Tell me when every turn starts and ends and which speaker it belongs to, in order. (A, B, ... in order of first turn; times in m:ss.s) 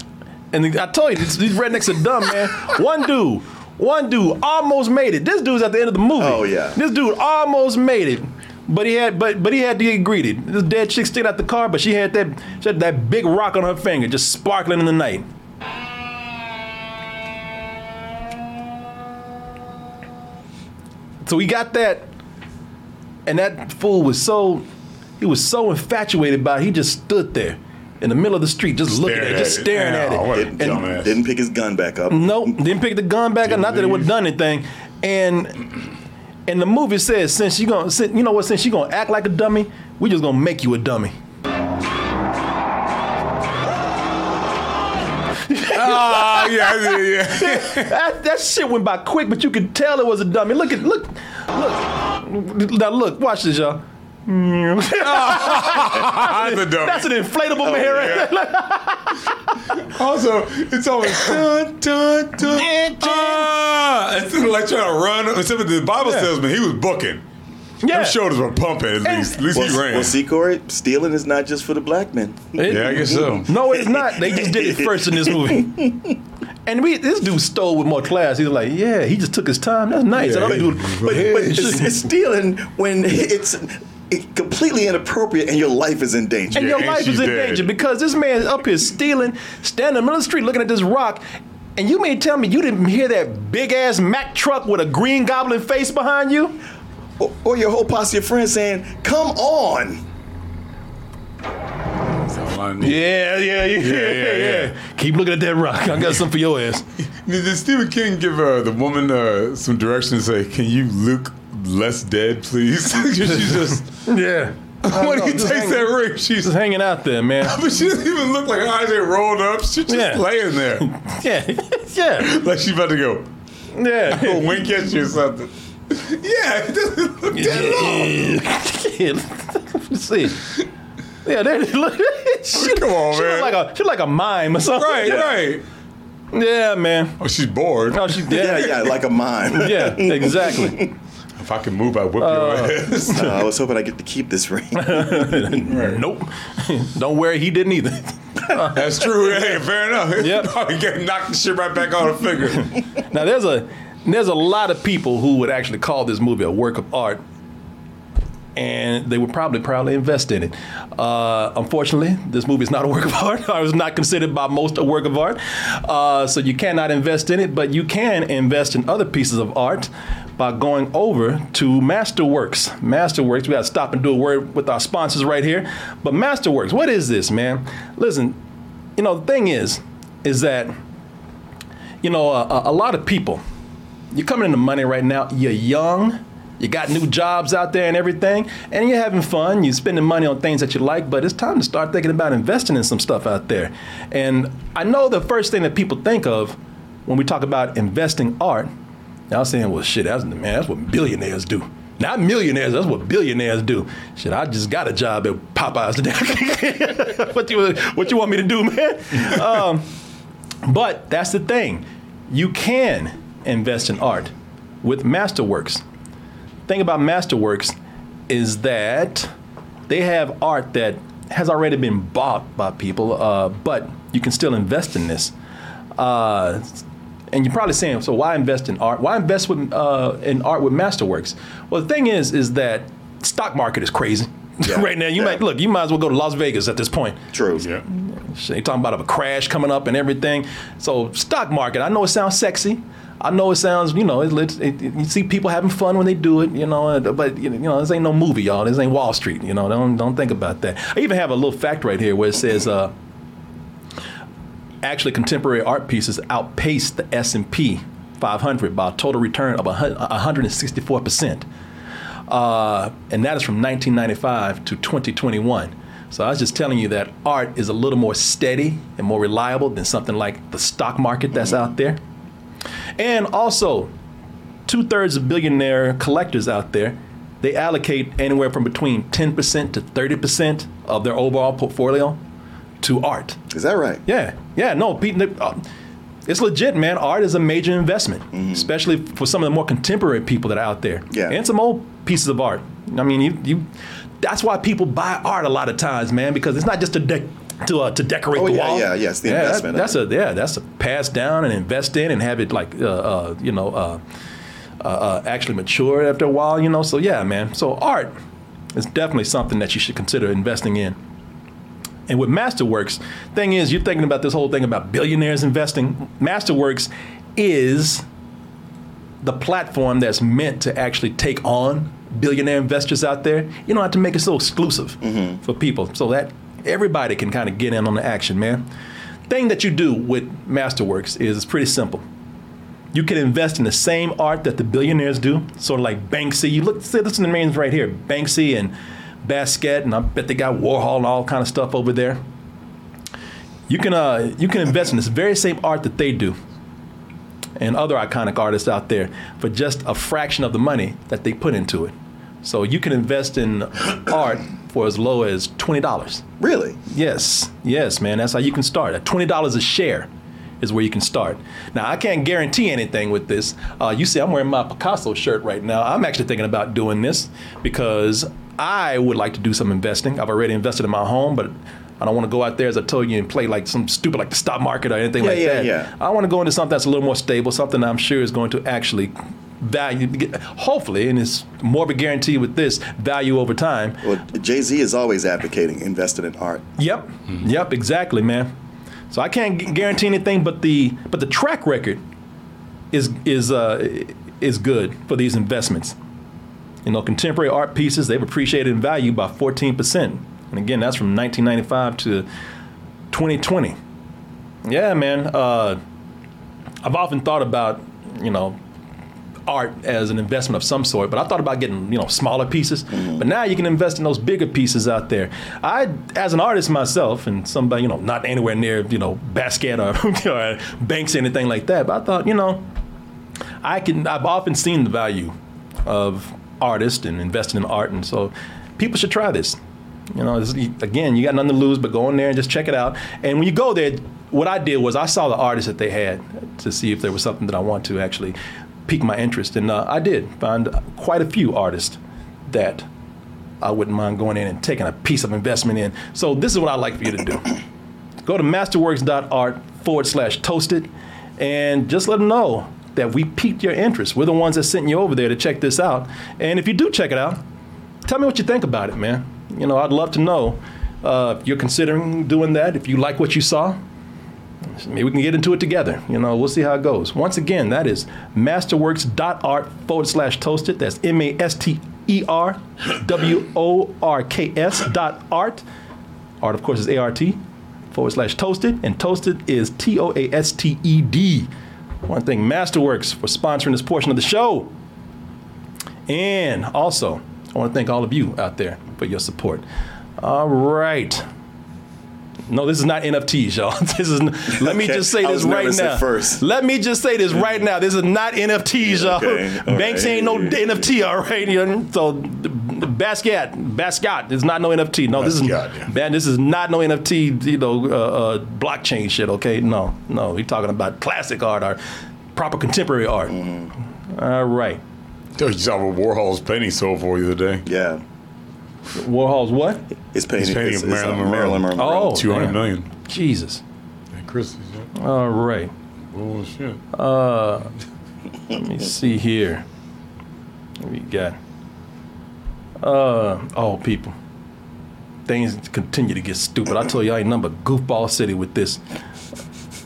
0:00.5-0:15.2 A
0:06.2-0:06.8 B
0:21.2-0:22.1 A
0:23.2-0:24.6 A
0:25.2-0:30.3 A
0:28.9-0:31.2 C
0:30.3-0:32.6 B
0:32.1-0:35.6 A
0:33.4-0:34.1 C
0:36.5-0:41.1 A
0:45.5-0:59.8 A
0:45.7-0:47.9 C
0:55.0-0:58.3 C
0:57.6-0:58.2 B
0:59.9-1:07.2 C
1:02.4-1:03.5 A
1:06.0-1:06.3 A
1:07.8-1:08.2 A
1:07.9-1:10.2 C
1:09.0-1:09.4 A
1:09.5-1:16.2 B
1:12.6-1:15.9 A
1:12.7-1:13.5 C
1:16.7-1:22.0 A
1:20.1-1:21.3 C
1:21.0-1:26.9 B
1:26.5-1:31.2 A
1:26.5-1:27.7 C
1:31.8-1:36.6 A
1:37.2-1:40.0 B
1:42.3-1:43.1 C
1:42.8-1:46.8 A
1:43.6-1:44.7 C
1:47.2-1:53.9 C
1:53.3-1:55.9 A
1:54.8-1:56.6 C
1:56.4-1:57.6 A
1:57.4-2:00.9 C
1:59.9-2:00.2 A
2:00.8-2:02.3 A
2:02.2-2:03.3 C
2:03.8-2:04.4 A
2:04.0-2:08.2 C
2:07.3-2:10.5 A
2:11.2-2:15.2 A
2:12.5-2:13.6 C
2:14.7-2:15.6 C
2:15.0-2:15.4 B
2:16.3-2:17.2 A
2:17.2-2:18.4 C
2:17.9-2:18.9 A
2:18.3-2:20.9 B
2:19.5-2:20.9 A
2:21.4-2:23.3 C
2:22.2-2:23.3 A
2:23.1-2:25.6 B
2:24.7-2:28.8 A
2:25.6-2:26.0 C
2:28.7-2:32.8 C
2:30.2-2:30.5 A
2:33.1-2:37.2 A
2:38.6-2:58.4 A
2:59.0-3:00.7 A
3:02.0-3:03.4 A
3:04.1-3:18.7 A
3:19.3-3:29.9 A
3:30.6-3:34.3 A
3:34.8-3:35.8 A
3:36.7-3:37.7 A
3:38.3-3:39.3 A
3:39.9-3:45.3 A
3:46.0-3:57.2 A
3:54.6-3:55.4 B
3:57.3-3:57.6 B
3:57.6-3:57.8 C
3:57.9-4:12.9 A
4:14.8-4:21.4 A
4:22.3-4:32.0 A
4:31.3-4:31.6 B
4:33.0-4:33.9 A
4:34.7-4:42.2 A
4:42.8-4:43.4 A
4:43.5-4:44.0 B
4:44.0-4:45.6 A
4:46.2-4:53.7 A
4:48.3-4:48.6 B
4:51.1-4:51.4 B
4:54.2-5:04.0 A
4:58.3-5:00.0 B
5:04.8-5:08.1 A
5:08.7-5:11.0 A
5:12.1-5:18.0 A
5:19.2-5:28.6 A
5:25.0-5:25.4 B
5:29.3-5:32.0 A
5:32.9-5:42.2 A
5:43.7-5:46.4 A
5:47.6-5:56.2 A
5:56.4-5:56.8 B
5:56.9-6:00.1 A
6:00.6-6:24.0 A
6:15.2-6:15.9 B
6:24.0-6:26.6 B
6:26.8-6:28.5 A
6:29.1-6:32.0 A
6:32.9-6:36.0 A
6:36.8-6:42.3 A
6:43.1-6:43.8 A
6:44.6-6:45.8 A
6:46.8-6:48.6 A
6:49.5-7:02.6 A
6:52.9-6:53.2 B
7:03.6-7:05.3 A
7:05.8-7:09.6 A
7:10.1-7:18.3 A
7:18.8-7:22.8 A
7:23.6-7:27.5 A
7:28.2-7:37.4 A
7:38.0-7:43.8 A
7:44.7-7:55.6 A
7:56.4-7:57.4 A
7:57.9-8:01.5 A
8:02.0-8:04.7 A
8:06.1-8:09.6 A
8:10.2-8:11.2 A
8:12.5-8:31.8 A
8:14.5-8:16.4 B
8:18.8-8:20.8 B
8:25.2-8:25.9 C
8:32.3-8:33.4 A
8:33.3-8:33.7 B
8:34.1-8:34.8 A
8:35.4-8:37.6 C
8:37.6-8:38.0 B
8:38.9-8:39.8 A
8:40.1-8:42.2 B
8:40.4-8:42.9 C
8:41.8-8:43.6 A
8:44.1-8:44.9 C
8:45.0-8:45.7 A
8:46.1-8:46.8 C
8:46.9-8:47.7 A
8:48.5-8:49.6 A
8:50.8-8:51.4 A
8:52.8-8:54.1 A
8:55.2-8:58.8 A